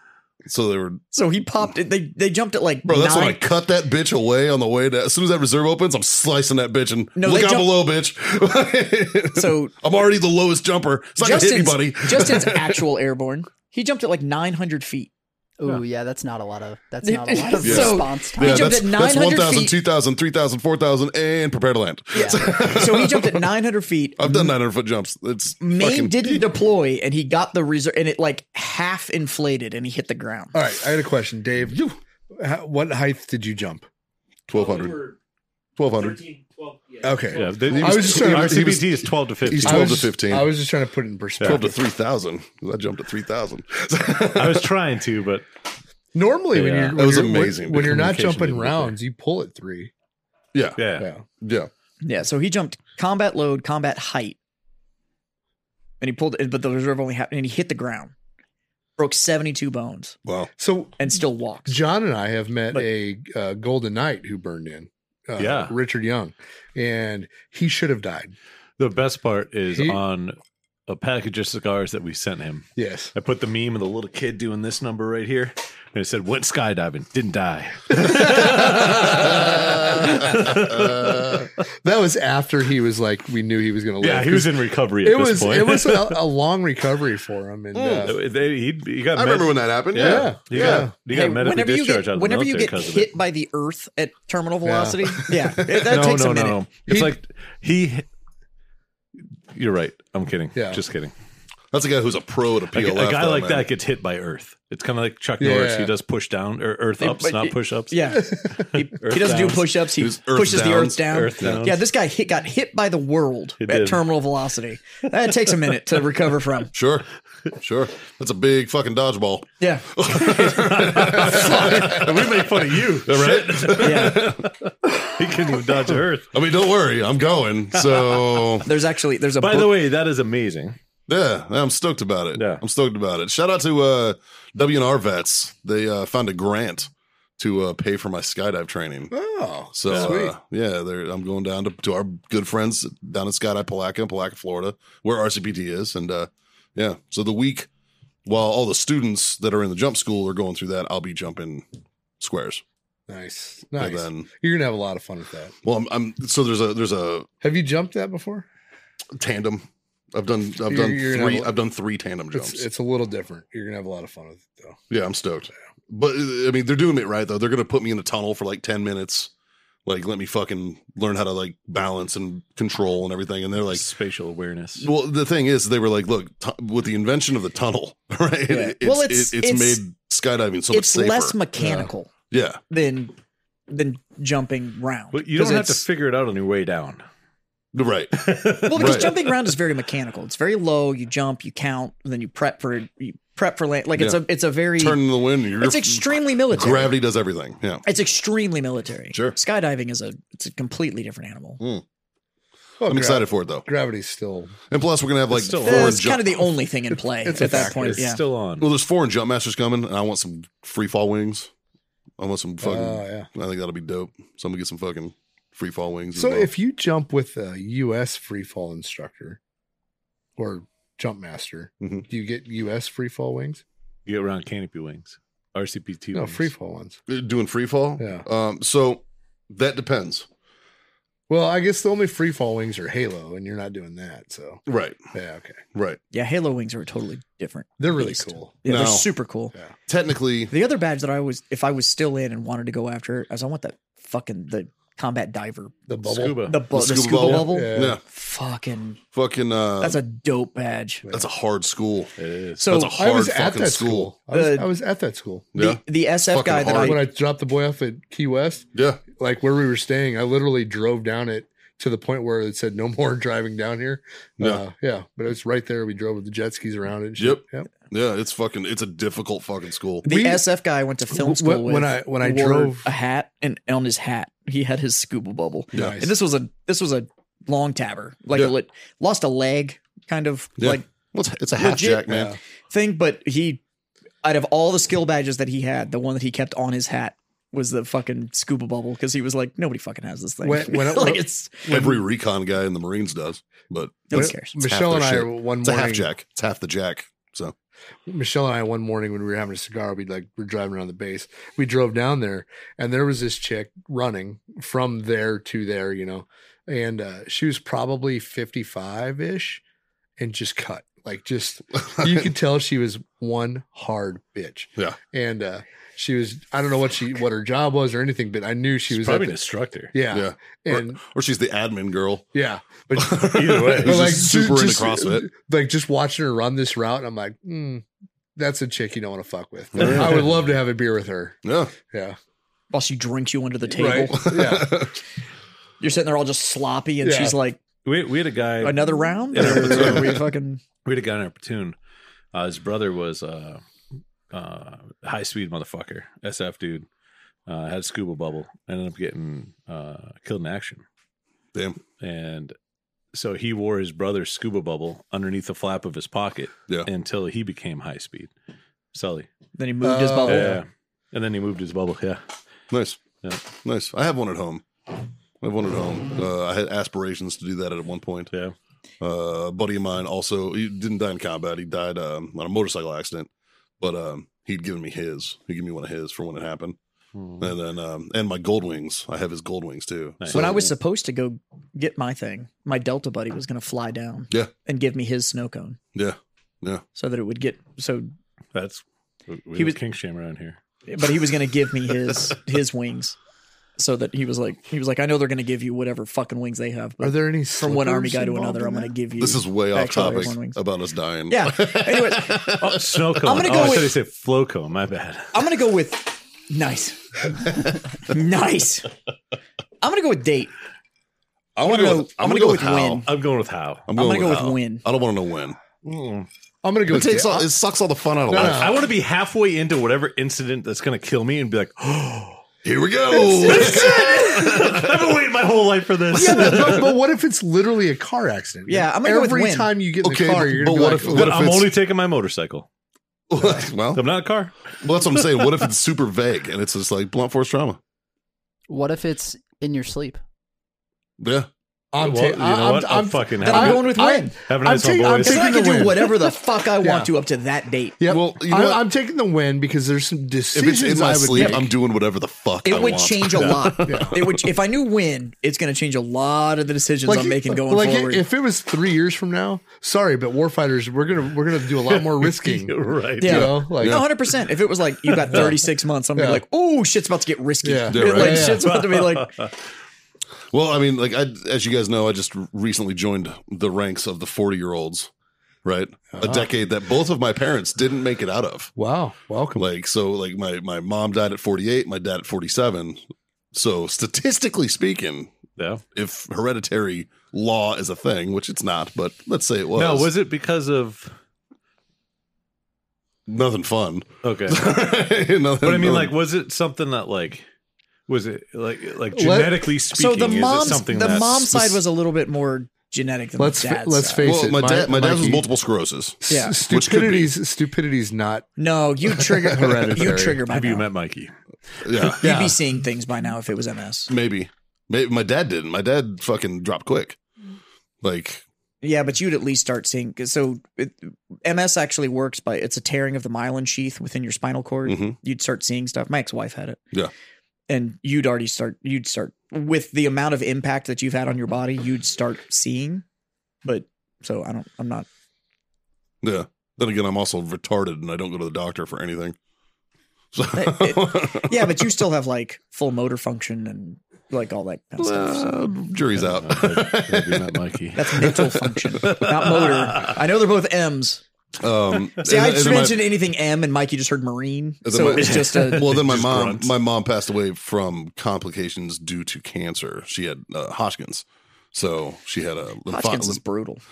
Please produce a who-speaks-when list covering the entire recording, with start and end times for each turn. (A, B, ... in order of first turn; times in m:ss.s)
0:00.4-0:01.0 A
0:01.1-0:03.4 B
0:02.9-0:12.8 A
0:07.2-0:07.7 B
0:09.3-0:09.7 B
0:11.2-0:15.1 B
0:15.6-0:18.7 C
0:17.0-0:19.7 B
0:17.6-0:23.5 A
0:22.1-0:24.5 B
0:22.2-0:22.5 D
0:24.2-0:26.4 A
0:25.6-0:30.6 B
0:30.5-0:33.9 D
0:34.5-0:35.1 A
0:35.8-0:36.3 A
0:37.0-0:38.8 D
0:37.3-0:40.0 E
0:37.7-0:40.5 A
0:39.6-0:41.8 D
0:41.4-0:44.7 A
0:44.3-0:45.4 E
0:46.1-0:49.9 D
0:46.5-0:47.0 E
0:46.9-0:48.8 A
0:47.8-0:48.7 E
0:50.5-0:50.8 A
0:50.8-0:51.1 E
0:51.0-0:51.2 D
0:51.4-0:51.7 A
0:52.0-0:54.4 B
0:56.0-0:58.1 B
0:59.0-1:00.2 B
1:00.2-1:00.5 A
1:00.6-1:08.3 D
1:01.0-1:01.8 B
1:05.4-1:05.7 E
1:08.8-1:10.3 E
1:09.7-1:10.0 D
1:10.9-1:21.4 E
1:12.8-1:13.1 D
1:17.9-1:20.4 D
1:18.7-1:21.5 A
1:21.8-1:28.2 D
1:24.0-1:26.2 E
1:27.7-1:28.1 A
1:28.0-1:33.1 E
1:29.1-1:30.8 A
1:29.9-1:30.9 D
1:31.0-1:36.6 B
1:34.6-1:35.2 D
1:35.3-1:35.9 A
1:35.6-1:38.0 E
1:36.9-1:37.2 D
1:39.5-1:41.1 E
1:40.5-1:40.8 D
1:41.7-1:43.7 A
1:42.7-1:49.7 E
1:45.4-1:45.9 D
1:47.0-1:56.7 B
1:48.3-1:48.6 D
1:50.0-1:51.6 A
1:51.1-1:51.8 E
1:53.6-1:54.0 E
1:56.7-2:02.5 A
1:59.6-1:59.9 B
2:00.2-2:06.3 E
2:01.3-2:01.9 D
2:03.0-2:04.5 A
2:03.8-2:04.3 B
2:06.3-2:08.7 A
2:07.7-2:08.4 E
2:08.6-2:09.8 B
2:09.4-2:10.8 E
2:11.1-2:19.1 A
2:12.3-2:12.6 E
2:19.1-2:20.3 D
2:19.7-2:27.7 A
2:19.9-2:20.2 E
2:28.2-2:31.6 A
2:32.2-2:32.6 A
2:33.1-2:35.5 D
2:33.8-2:34.3 A
2:35.6-2:37.3 A
2:37.4-2:38.4 D
2:39.2-2:42.6 A
2:40.6-2:41.5 D
2:42.3-2:44.8 D
2:44.9-2:49.3 A
2:49.8-2:53.8 A
2:53.7-2:54.9 E
2:54.8-3:01.4 A
2:58.5-2:59.8 B
3:00.7-3:02.1 B
3:01.6-3:01.9 D
3:02.3-3:02.6 A
3:02.7-3:03.1 B
3:03.7-3:05.8 B
3:05.1-3:07.0 E
3:07.7-3:09.2 A
3:08.1-3:09.5 E
3:08.6-3:15.0 B
3:14.0-3:14.2 A
3:14.7-3:17.8 A
3:15.6-3:17.0 B
3:17.8-3:21.6 B
3:22.8-3:24.5 D
3:22.9-3:23.6 A
3:24.7-3:26.5 A
3:25.3-3:26.0 E
3:25.6-3:28.2 B
3:27.2-3:28.0 D
3:27.4-3:28.7 E
3:28.6-3:31.5 A
3:32.2-3:36.5 A
3:32.6-3:33.3 D
3:36.1-3:39.4 D
3:40.4-3:43.6 D
3:41.8-3:42.0 A
3:44.1-3:46.5 E
3:46.1-3:47.0 D
3:47.1-3:50.3 A
3:48.0-3:48.2 D
3:51.3-3:54.6 D
3:54.7-3:55.0 A
3:55.1-3:55.6 D
3:55.7-3:56.0 A
3:56.1-3:59.5 B
3:57.8-3:58.5 D
3:58.6-3:59.1 A
3:59.9-4:00.5 A
4:00.5-4:05.7 B
4:05.9-4:06.4 D
4:06.0-4:06.6 E
4:06.4-4:09.0 B
4:06.7-4:08.0 A
4:07.3-4:08.0 D
4:09.1-4:10.0 A
4:09.8-4:11.0 B
4:11.1-4:14.1 A
4:12.2-4:12.6 E
4:12.6-4:12.9 B
4:12.9-4:15.5 D
4:14.3-4:14.7 B
4:15.5-4:17.0 A
4:15.6-4:17.0 B
4:16.7-4:27.7 D
4:18.7-4:19.0 A
4:27.2-4:30.0 A
4:30.0-4:30.4 D
4:30.0-4:40.8 B
4:31.1-4:32.9 D
4:35.7-4:36.0 A
4:35.7-4:36.1 D
4:40.6-4:42.3 A
4:41.5-4:43.6 B
4:42.1-4:42.4 D
4:44.2-4:51.7 B
4:50.4-4:52.0 D
4:51.7-4:57.5 A
4:54.1-4:54.6 B
4:54.1-4:56.1 D
4:58.0-5:09.6 D
5:10.2-5:19.4 D
5:11.9-5:12.2 A
5:18.9-5:19.9 E
5:19.9-5:21.0 D
5:20.1-5:22.3 A
5:22.3-5:27.8 D
5:23.0-5:25.3 A
5:23.3-5:24.1 E
5:28.4-5:32.2 D
5:29.8-5:30.2 A
5:31.4-5:31.7 A
5:32.7-5:34.5 B
5:33.7-5:34.8 D
5:34.0-5:34.9 A
5:35.8-5:37.6 B
5:37.0-5:37.4 D
5:37.8-5:40.2 E
5:38.6-5:40.6 B
5:39.5-5:40.2 A
5:40.8-5:41.7 E
5:42.3-5:43.6 E
5:44.3-5:46.9 E
5:47.5-5:50.8 E
5:51.5-5:51.8 A
5:52.0-5:52.5 E
5:53.1-5:58.3 E
5:58.9-5:59.3 E
5:59.5-6:00.6 B
5:59.8-6:00.6 D
6:00.3-6:02.2 E
6:02.7-6:04.6 A
6:05.4-6:08.3 A
6:09.0-6:13.3 A
6:13.8-6:16.8 A
6:17.1-6:17.5 E
6:17.4-6:20.7 A
6:20.2-6:20.5 E
6:20.3-6:25.8 B
6:25.9-6:26.8 A
6:26.9-6:28.1 B
6:28.5-6:30.6 E
6:30.9-6:33.2 B
6:33.8-6:40.6 B
6:37.0-6:38.9 D
6:39.2-6:43.4 A
6:41.3-6:42.5 B
6:42.6-6:45.3 E
6:43.2-6:43.9 B
6:45.3-6:48.9 B
6:49.8-6:50.5 B
6:51.6-6:53.1 A
6:51.6-6:53.1 B
6:53.0-6:53.9 E
6:53.9-6:55.6 A
6:53.9-6:54.8 B
6:55.8-6:56.3 E
6:56.6-6:57.4 D
6:56.9-6:58.8 A
6:58.3-6:58.8 D
6:58.3-7:02.4 E
7:02.6-7:04.9 A
7:03.2-7:04.6 B
7:03.4-7:06.9 E
7:06.1-7:11.4 D
7:08.7-7:09.7 B
7:10.0-7:11.7 A
7:11.1-7:12.7 E
7:13.3-7:14.0 A
7:13.9-7:15.5 E
7:14.8-7:17.8 A
7:18.7-7:20.2 C
7:21.2-7:21.5 A
7:21.9-7:27.1 D
7:22.0-7:25.9 E
7:23.4-7:24.3 B
7:25.2-7:28.0 B
7:28.0-7:31.7 D
7:28.0-7:28.8 A
7:30.5-7:34.5 A
7:31.3-7:31.6 B
7:32.6-7:38.2 B
7:33.8-7:34.2 D
7:37.0-7:44.0 D
7:41.8-7:43.5 E
7:43.2-7:49.3 B
7:43.8-7:44.1 A
7:45.1-7:45.5 E
7:46.2-7:46.4 D
7:47.6-7:48.6 D
7:47.9-7:48.6 A
7:48.3-7:49.6 E
7:50.5-7:55.1 A
7:55.6-7:58.7 A
7:56.1-7:56.5 D
7:58.8-7:59.6 D
7:59.6-8:03.0 A
8:03.5-8:05.3 A
8:05.6-8:05.8 E
8:05.9-8:10.1 A
8:09.7-8:11.1 E
8:13.3-8:16.1 A
8:14.2-8:14.6 E
8:15.6-8:17.4 E
8:18.1-8:21.8 E
8:19.1-8:19.7 D
8:19.9-8:24.3 B
8:23.4-8:25.4 D
8:24.2-8:27.3 A
8:26.2-8:28.5 D
8:26.3-8:26.6 B
8:28.6-8:30.9 B
8:29.2-8:30.4 D
8:30.5-8:31.3 E
8:31.8-8:32.2 A
8:32.2-8:34.1 B
8:32.2-8:32.6 D
8:34.1-8:37.2 A
8:38.0-8:38.4 A
8:38.8-8:46.8 B
8:44.8-8:45.2 A
8:47.7-8:53.0 B
8:53.6-8:55.1 B
8:56.2-8:59.4 A
9:00.3-9:01.9 A
9:00.5-9:05.6 B
9:05.0-9:07.6 A
9:06.2-9:08.4 E
9:07.9-9:11.2 B
9:08.2-9:09.2 A
9:09.0-9:10.1 E
9:11.6-9:13.1 A
9:12.2-9:16.0 B
9:14.8-9:23.4 A
9:14.9-9:16.8 E
9:22.9-9:23.8 B